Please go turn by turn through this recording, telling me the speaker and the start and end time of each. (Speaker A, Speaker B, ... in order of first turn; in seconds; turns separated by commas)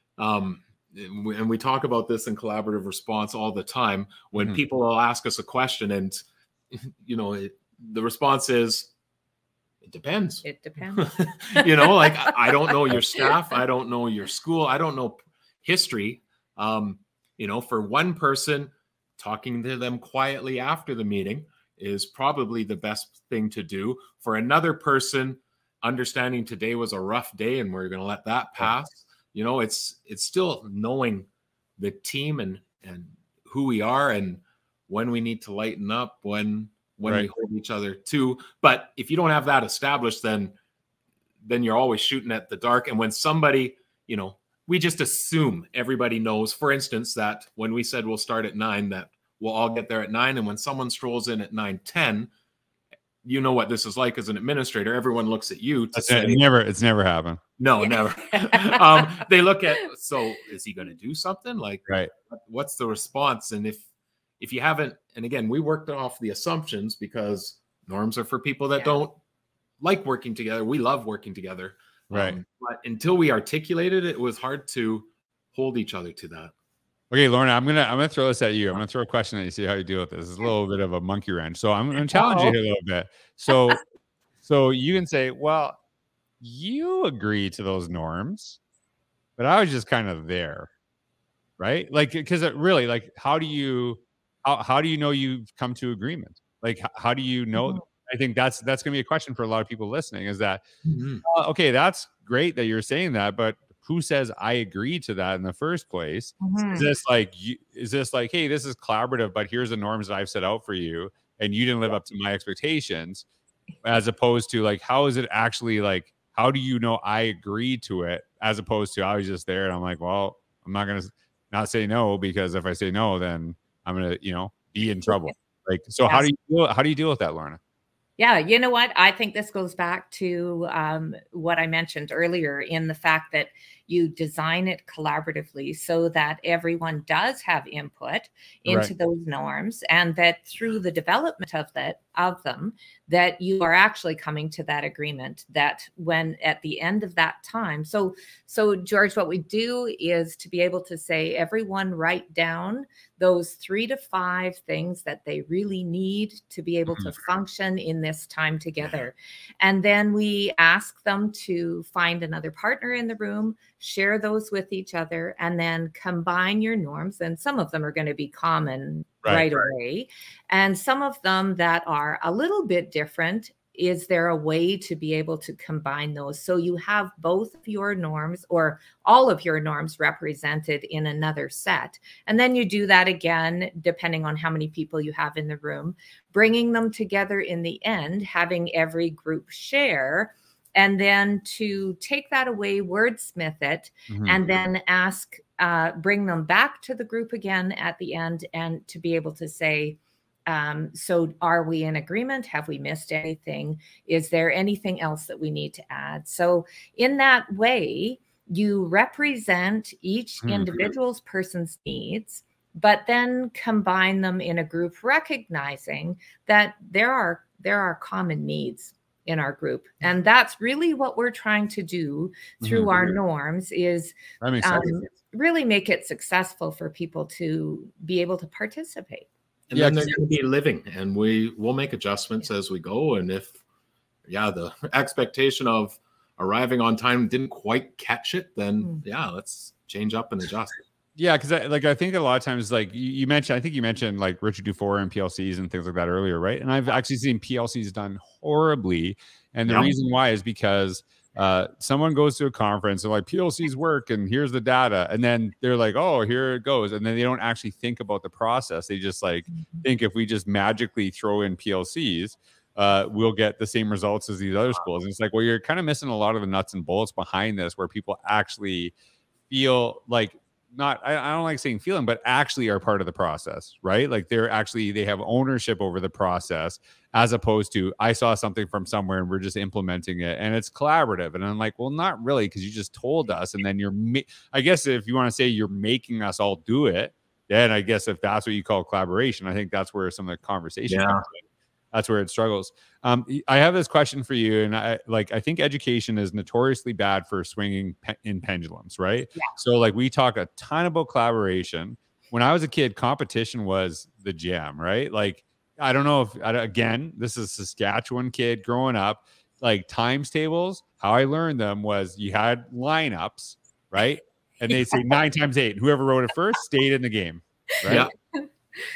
Speaker A: 0.2-8.9, Speaker A: 9.8-31.3, Speaker B: 10.4-13.4, Speaker A: 31.8-40.5, Speaker A: 41.4-52.3, Speaker A: 53.2-56.4, Speaker C: 55.9-57.4, Speaker A: 57.6-63.8, Speaker B: 58.3-59.2, Speaker A: 64.4-69.1, Speaker A: 69.8-76.5, Speaker C: 72.1-72.4, Speaker C: 77.1-83.8, Speaker A: 82.1-82.5, Speaker C: 84.4-85.8, Speaker C: 86.4-88.6, Speaker C: 89.4-90.7, Speaker C: 91.6-100.6, Speaker B: 97.5-97.8, Speaker A: 100.8-101.2, Speaker C: 101.2-113.2, Speaker B: 106.4-106.9, Speaker C: 113.8-127.6, Speaker B: 128.2-229.3, Speaker C: 194.1-194.4, Speaker C: 210.4-210.9, Speaker C: 222.6-223.1, Speaker C: 224.4-225.1, Speaker A: 229.7-233.6, Speaker C: 229.7-230.1, Speaker A: 234.2-240.8, Speaker C: 241.2-268.9, Speaker A: 249.7-249.9, Speaker C: 269.5-318.1, Speaker A: 290.9-291.2